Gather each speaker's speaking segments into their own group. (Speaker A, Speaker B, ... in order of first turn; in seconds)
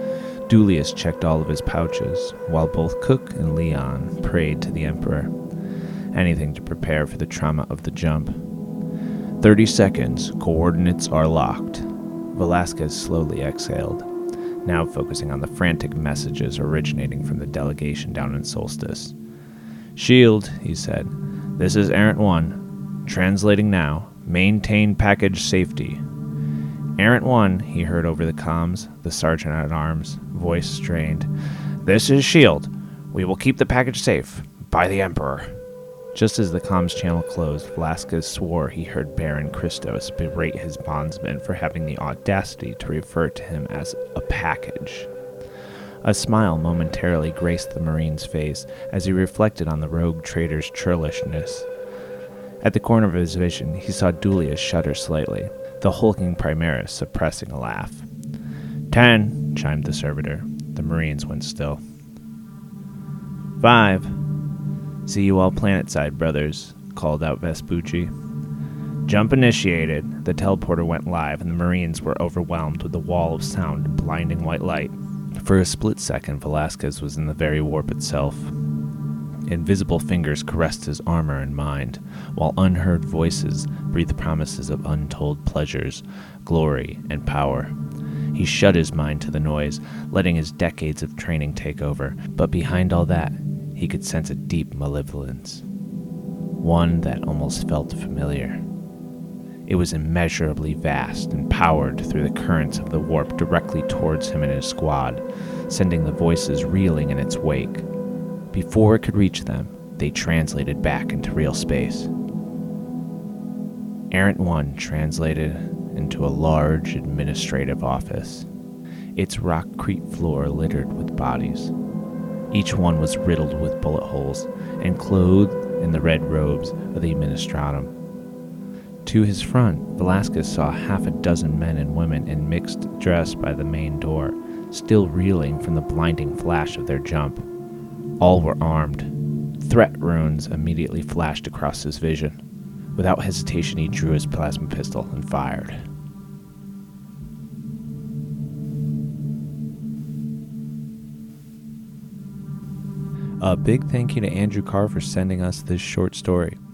Speaker A: 0.5-5.3, 6.1-8.4, 9.4-14.1, 14.6-19.1, 19.9-26.0, 27.0-31.3, 31.8-35.5, 36.1-45.1, 46.0-51.7, 52.6-58.0, 58.9-61.8, 63.6-64.1, 65.0-68.1, 69.1-78.5, 79.5-87.7, 88.3-95.6, 96.6-98.6, 99.7-107.8, 108.5-112.1, 114.1-118.5, 119.2-121.7, 122.5-127.9, 129.0-137.4, 138.2-142.4, 142.9-145.8, 153.4-156.6